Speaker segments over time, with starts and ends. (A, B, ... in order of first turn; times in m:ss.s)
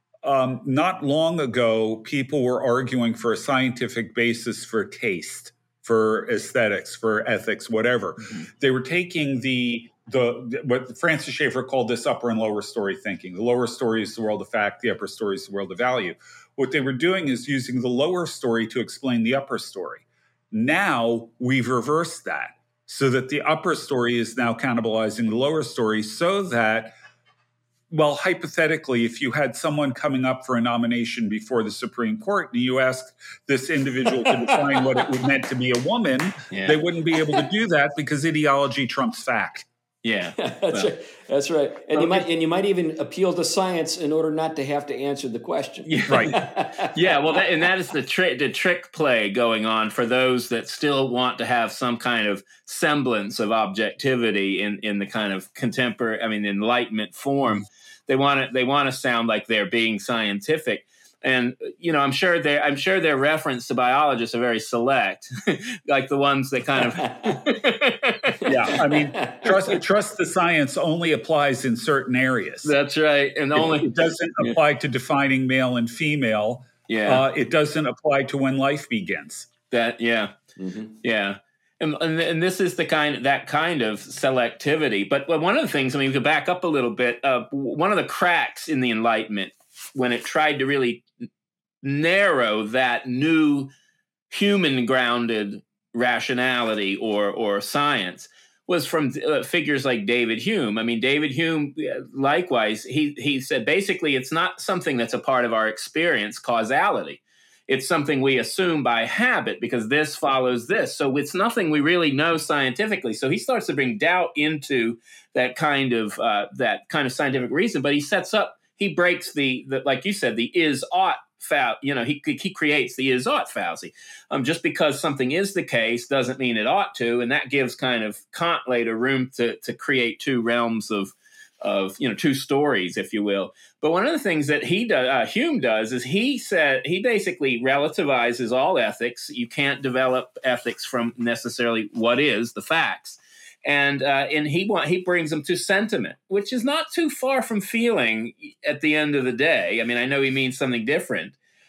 0:00.2-0:26.9 A
0:27.9-0:39.7 A
0:36.5-0:36.8 B
0:40.0-0:40.9 B
0:40.4-0:47.6 C
0:41.9-0:42.3 B
0:45.9-1:08.5 B
1:07.0-1:07.4 C
1:08.5-1:12.7 A
1:08.8-1:09.4 C
1:12.6-1:14.6 B
1:13.6-1:19.5 A
1:16.9-1:17.2 B
1:19.7-1:20.3 B
1:20.6-1:20.9 C
1:21.0-1:31.0 B
1:31.8-1:33.7 B
1:34.3-2:31.4 B